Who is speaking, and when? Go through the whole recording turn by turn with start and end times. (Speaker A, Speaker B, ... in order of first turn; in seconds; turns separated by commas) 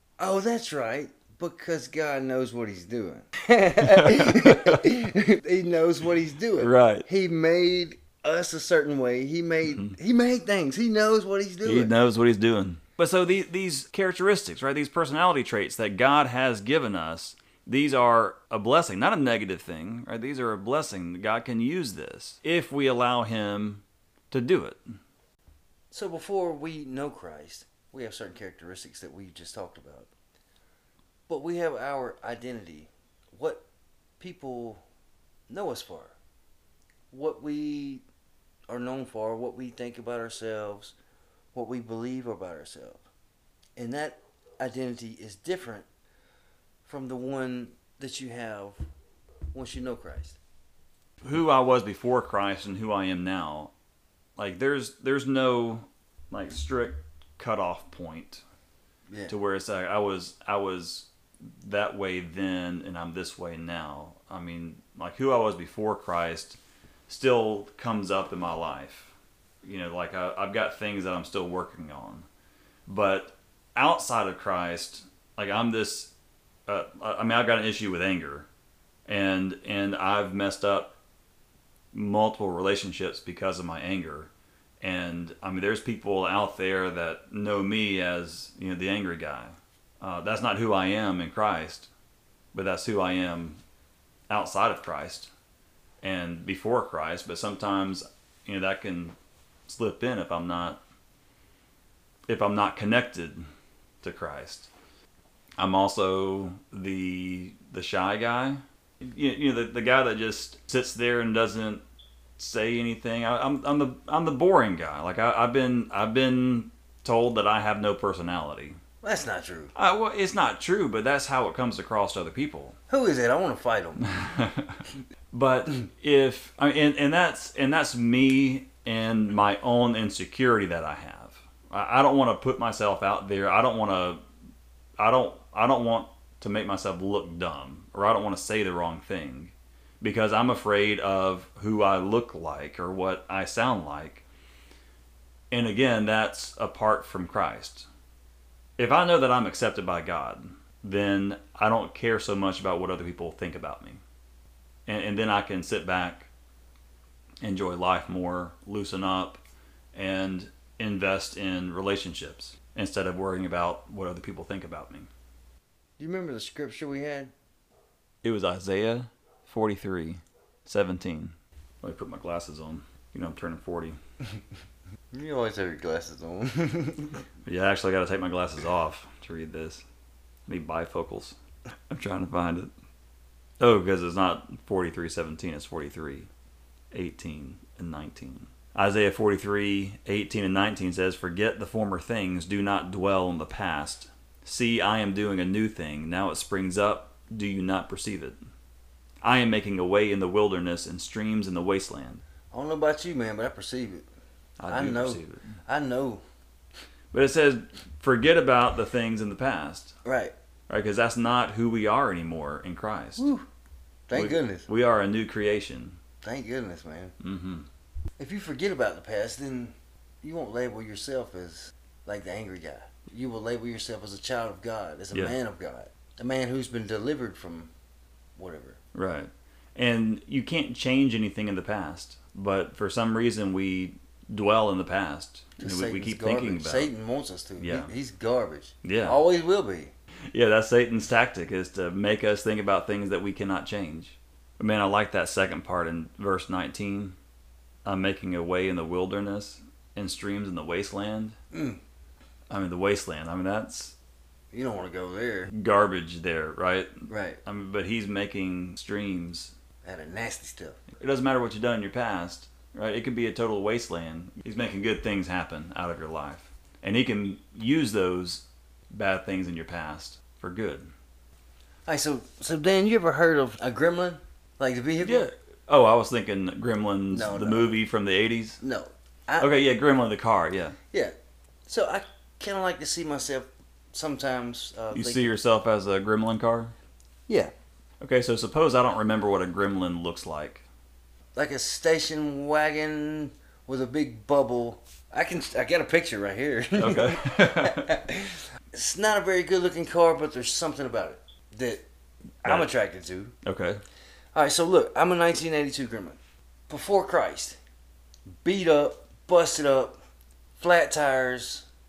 Speaker A: 0.2-11.9, Speaker B: 3.8-4.8, Speaker B: 6.6-7.0, Speaker B: 9.7-9.9, Speaker B: 11.6-24.8, Speaker A: 25.9-30.1, Speaker A: 31.3-33.6, Speaker A: 34.2-34.8, Speaker A: 35.5-36.1, Speaker A: 37.1-38.0, Speaker A: 38.7-40.9, Speaker A: 41.5-43.0, Speaker A: 43.8-45.9, Speaker A: 46.9-48.8, Speaker A: 49.5-50.4, Speaker B: 51.2-53.7, Speaker B: 54.4-58.4, Speaker A: 59.1-59.4, Speaker B: 59.3-72.2, Speaker B: 72.9-76.1, Speaker B: 76.7-78.5, Speaker B: 79.1-81.0, Speaker B: 81.9-84.3, Speaker B: 84.8-91.9, Speaker B: 92.5-93.6, Speaker B: 94.3-95.3, Speaker B: 96.0-99.2, Speaker B: 99.7-100.8, Speaker B: 102.3-103.4, Speaker B: 104.0-104.7, Speaker B: 105.6-111.8, Speaker B: 112.4-118.8, Speaker A: 119.0-119.7, Speaker B: 119.7-122.8, Speaker A: 122.9-124.0, Speaker B: 124.0-134.2, Speaker B: 135.0-144.2, Speaker B: 145.5-147.9, Speaker B: 148.8-154.0, Speaker B: 154.9-156.3, Speaker B: 157.4-159.4, Speaker B: 159.9-165.1, Speaker A: 166.0-167.3, Speaker B: 168.2-174.0, Speaker A: 175.1-177.2, Speaker B: 177.4-179.8, Speaker B: 180.5-181.4, Speaker B: 181.9-182.7, Speaker B: 183.6-186.3, Speaker B: 186.9-198.4, Speaker B: 199.2-202.2, Speaker A: 202.5-204.1, Speaker B: 204.6-205.5, Speaker A: 204.7-206.2, Speaker B: 207.1-209.9, Speaker A: 210.0-210.3, Speaker B: 210.7-213.2, Speaker A: 213.2-213.4, Speaker A: 214.1-214.7, Speaker B: 214.1-216.0, Speaker A: 216.2-217.1, Speaker B: 217.2-217.7, Speaker A: 218.2-227.7, Speaker A: 228.4-228.8, Speaker B: 228.9-236.9, Speaker A: 235.6-239.9, Speaker B: 237.6-237.9, Speaker B: 238.8-239.2, Speaker B: 240.3-247.2, Speaker B: 247.8-251.3, Speaker A: 251.5-251.8, Speaker B: 252.5-253.9, Speaker A: 254.5-255.5, Speaker B: 255.5-259.5, Speaker A: 257.1-257.4, Speaker A: 259.8-260.8, Speaker B: 261.0-270.9, Speaker A: 271.9-275.3, Speaker B: 275.0-278.6, Speaker A: 277.1-277.8, Speaker A: 278.6-279.5, Speaker B: 279.4-280.8, Speaker A: 281.7-285.3, Speaker B: 284.9-286.7, Speaker A: 287.3-287.5, Speaker B: 288.0-290.6, Speaker A: 291.3-301.8, Speaker B: 296.8-297.9, Speaker A: 302.4-303.3, Speaker B: 303.4-303.8, Speaker A: 304.3-306.2, Speaker A: 306.7-307.6, Speaker A: 308.4-310.0, Speaker A: 310.6-311.7